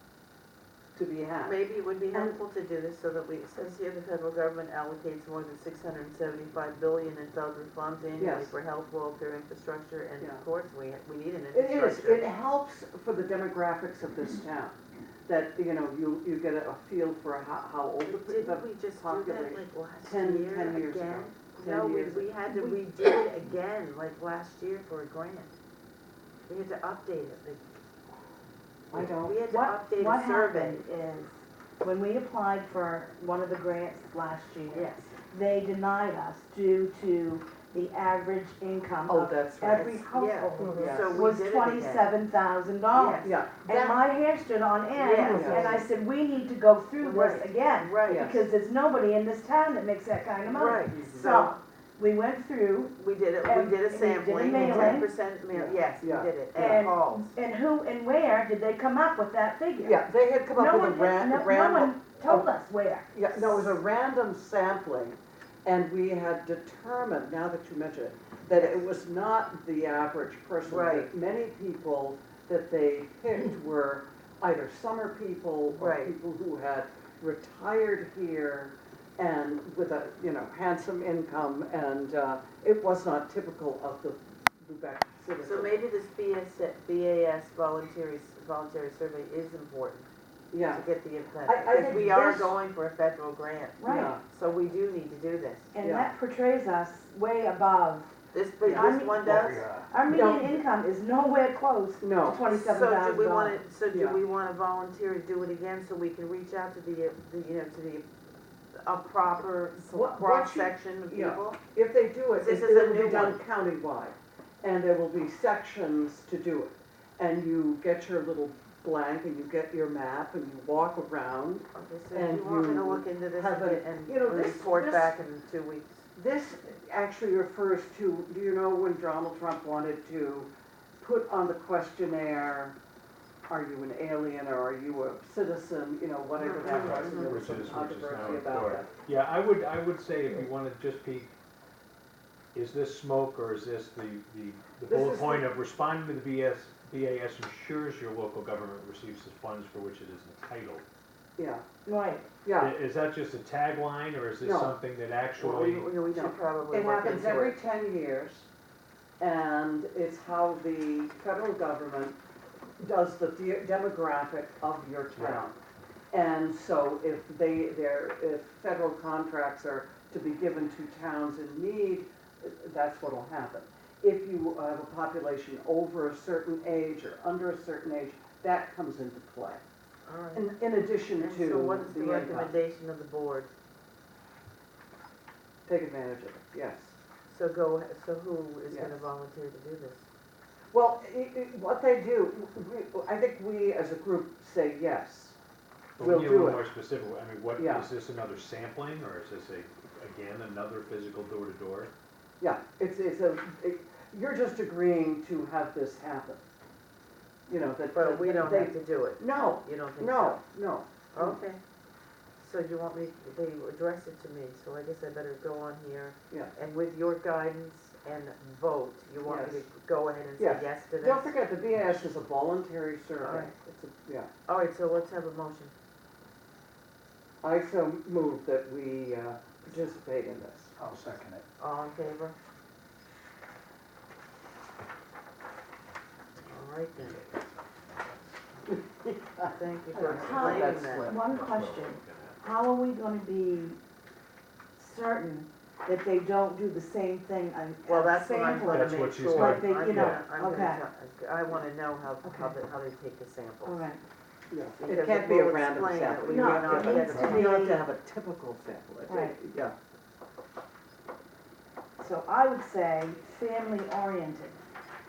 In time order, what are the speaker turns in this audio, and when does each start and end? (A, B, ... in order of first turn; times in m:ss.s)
0:01.0-0:01.6 A
0:01.4-0:12.3 B
0:02.1-0:02.4 A
0:08.2-0:08.5 A
0:11.5-0:22.8 A
0:18.0-0:25.6 B
0:26.5-0:27.6 B
0:28.9-0:29.4 A
0:28.9-0:30.8 B
0:29.5-0:55.1 C
0:34.7-0:35.1 B
0:39.1-0:40.0 A
0:39.8-0:42.2 B
0:40.6-0:41.3 A
0:42.9-0:43.3 B
0:43.2-0:44.0 A
0:45.0-0:45.8 B
0:45.3-0:45.8 A
0:47.0-0:48.3 B
0:48.1-0:48.5 A
0:50.4-0:51.6 B
0:50.9-0:51.3 A
0:53.0-0:57.4 B
0:54.5-0:56.9 A
0:56.6-1:00.0 C
0:59.8-1:02.5 A
1:00.5-1:03.8 C
1:03.1-1:25.8 A
1:08.5-1:08.8 B
1:10.7-1:11.1 B
1:15.7-1:16.1 B
1:25.4-1:30.1 B
1:30.5-1:30.8 A
1:30.6-1:35.7 B
1:31.4-1:32.6 A
1:33.8-1:34.1 C
1:33.8-1:34.2 A
1:35.7-1:38.1 C
1:35.8-1:36.1 A
1:38.3-1:39.7 B
1:38.6-1:38.9 A
1:38.7-1:43.6 C
1:39.2-1:39.8 D
1:40.0-1:40.6 A
1:42.0-1:42.5 A
1:42.5-1:48.1 B
1:43.9-1:44.2 A
1:48.8-1:51.6 B
1:49.8-2:05.2 A
1:52.4-1:53.4 B
2:01.7-2:06.1 B
2:06.2-2:12.8 A
2:13.5-2:18.9 A
2:16.5-2:17.2 B
2:16.7-2:21.4 D
2:22.5-2:30.8 D
2:24.9-2:25.5 A
2:31.4-2:31.6 A
2:31.9-2:32.3 C
2:32.4-2:32.8 A
2:32.6-2:35.9 D
2:34.4-2:34.8 A
2:35.4-2:38.5 A
2:35.8-2:37.6 B
2:39.2-2:42.2 A
2:42.8-2:45.6 A
2:46.1-2:59.6 A
3:00.1-3:00.5 B
3:00.3-3:02.5 A
3:01.2-3:03.5 B
3:05.7-3:07.0 A
3:07.3-3:10.0 B
3:08.7-3:09.0 A
3:10.7-3:15.4 A
3:16.0-3:16.7 A
3:16.0-3:21.9 D
3:17.6-3:17.9 A
3:22.4-3:26.4 A
3:27.5-3:31.4 A
3:27.9-3:30.4 B
3:31.1-3:31.6 B
3:32.4-3:41.4 B
3:39.2-3:39.6 A
3:40.4-3:44.3 A
3:43.2-3:43.5 B
3:44.5-3:45.7 B
3:47.4-3:50.7 A
3:50.9-3:51.4 D
3:51.6-3:52.4 B
3:56.5-3:57.3 B
3:58.7-4:01.2 A
3:59.5-4:01.1 B
4:00.1-4:03.8 C
4:01.1-4:02.4 D
4:04.8-4:10.8 C
4:07.9-4:13.8 B
4:08.7-4:10.2 D
4:12.2-4:12.6 C
4:13.6-4:14.0 C
4:14.5-4:19.8 A
4:14.8-4:17.7 B
4:16.3-4:17.8 C
4:19.1-4:19.4 C
4:22.0-4:24.6 C